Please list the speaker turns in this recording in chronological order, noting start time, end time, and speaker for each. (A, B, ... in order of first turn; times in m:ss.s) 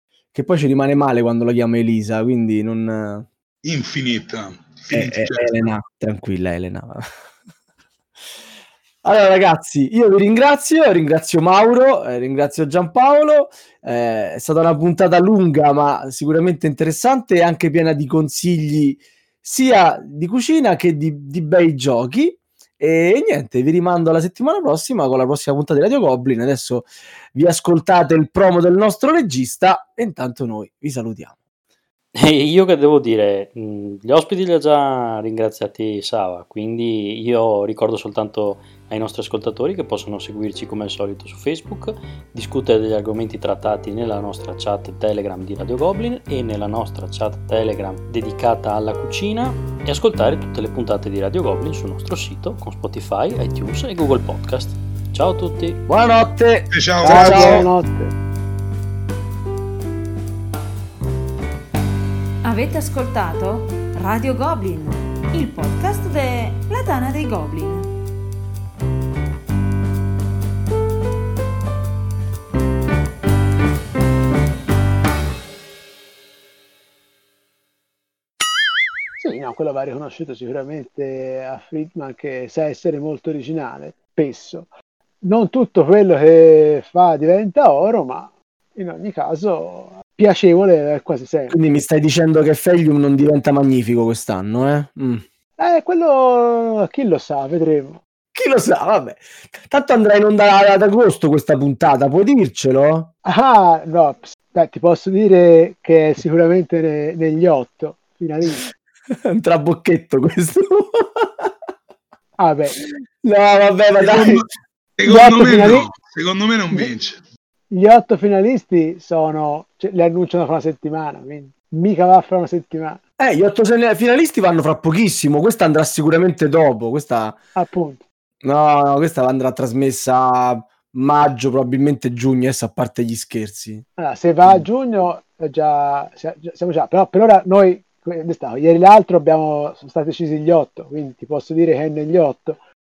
0:00.3-0:03.3 A
0:03.6-0:05.7 B
0:04.9-0:07.1 A
0:09.0-0:31.4 A
0:32.2-0:55.8 C
0:55.9-0:57.7 A
0:56.7-0:57.7 B
0:57.0-0:58.1 D
1:02.4-1:07.9 E
1:19.2-1:24.7 D
1:25.2-1:31.6 D
1:31.5-1:35.2 A
1:35.6-1:38.0 D
1:38.3-1:43.1 A
1:43.2-1:48.7 D
1:49.2-1:51.5 A
1:52.4-1:52.8 D
1:53.2-1:54.4 A
1:54.0-1:54.5 B
1:55.0-1:57.2 B
1:55.1-1:55.9 D
1:57.7-2:03.0 D
2:03.2-2:07.4 A
2:07.6-2:08.0 D
2:08.4-2:13.8 A
2:14.0-2:22.6 D